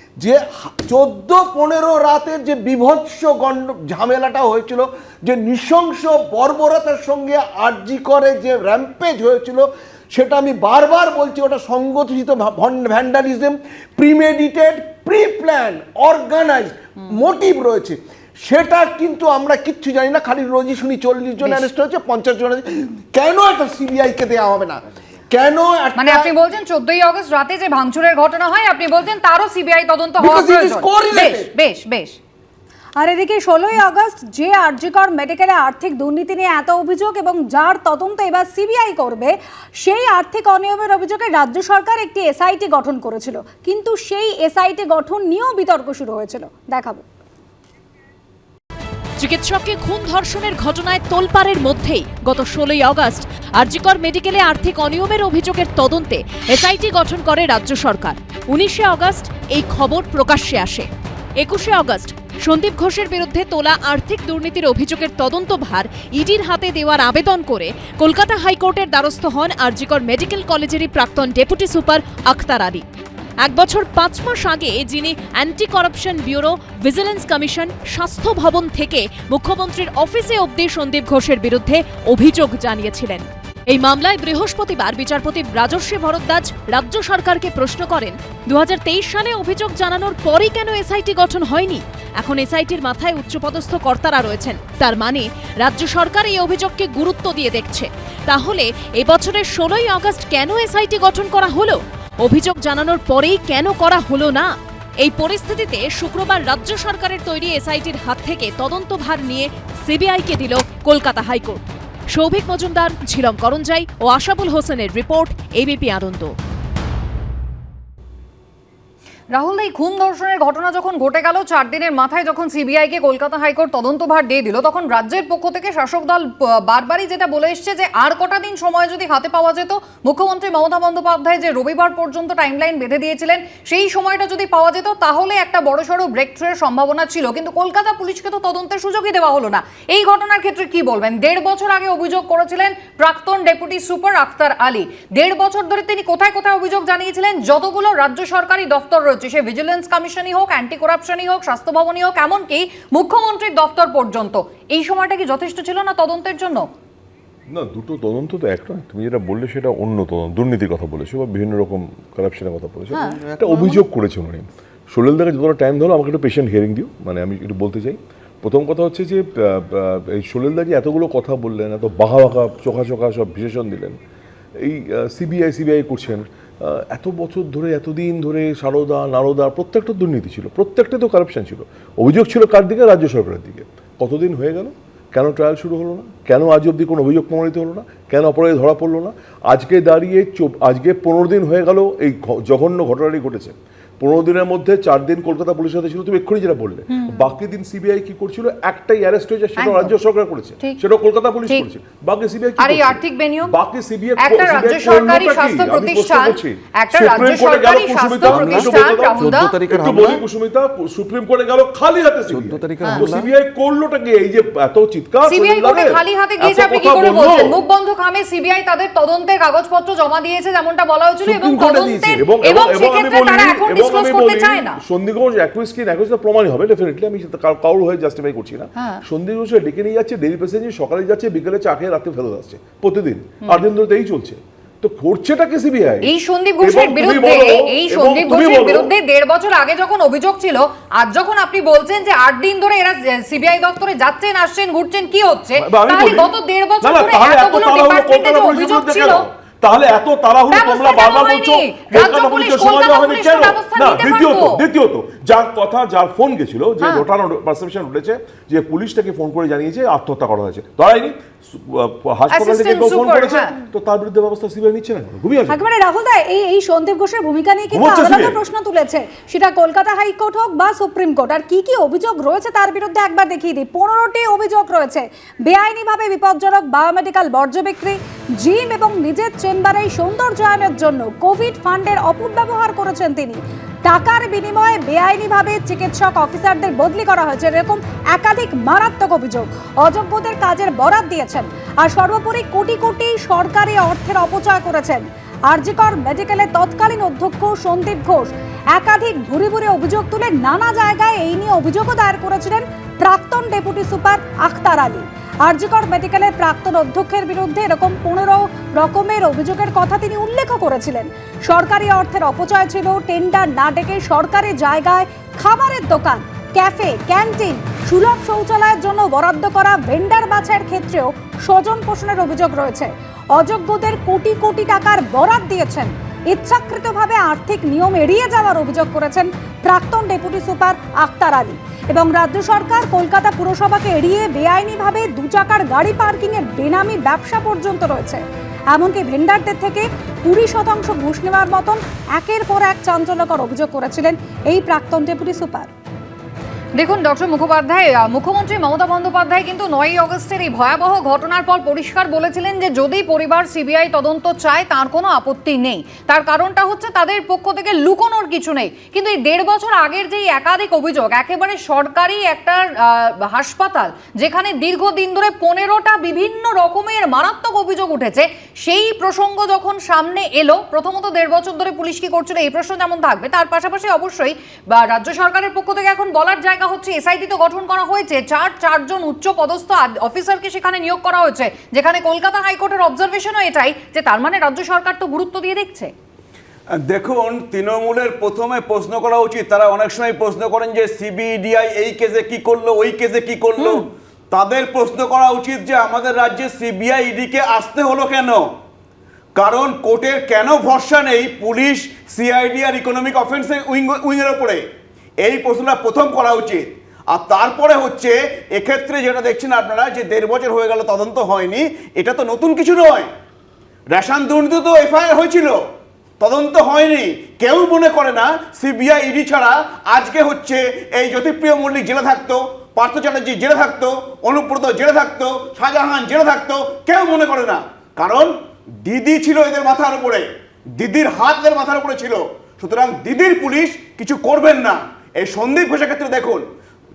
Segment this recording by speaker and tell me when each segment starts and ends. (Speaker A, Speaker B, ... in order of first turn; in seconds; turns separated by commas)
Speaker A: 0.2-26.3, Speaker B: 25.9-32.2, Speaker A: 30.2-31.5, Speaker C: 33.0-47.0, Speaker D: 49.2-60.9, Speaker D: 61.4-72.8, Speaker D: 73.4-111.6, Speaker D: 112.1-116.3, Speaker B: 119.3-156.7, Speaker E: 157.5-174.0, Speaker A: 162.9-163.8, Speaker E: 174.6-217.6, Speaker B: 196.9-197.3, Speaker B: 199.6-199.9, Speaker B: 202.6-203.6, Speaker B: 204.2-209.5, Speaker A: 208.2-210.2, Speaker A: 212.3-213.3, Speaker B: 215.2-224.8, Speaker E: 221.2-238.9, Speaker B: 228.8-229.0, Speaker B: 236.0-249.2, Speaker E: 245.6-246.3, Speaker E: 246.8-265.6, Speaker B: 250.5-254.6, Speaker B: 262.3-263.5, Speaker C: 265.5-345.7, Speaker E: 267.7-268.4, Speaker B: 346.8-385.9, Speaker F: 386.8-398.5, Speaker B: 393.6-393.8, Speaker F: 399.4-404.6, Speaker F: 405.2-413.1, Speaker F: 413.9-415.6, Speaker F: 416.2-436.5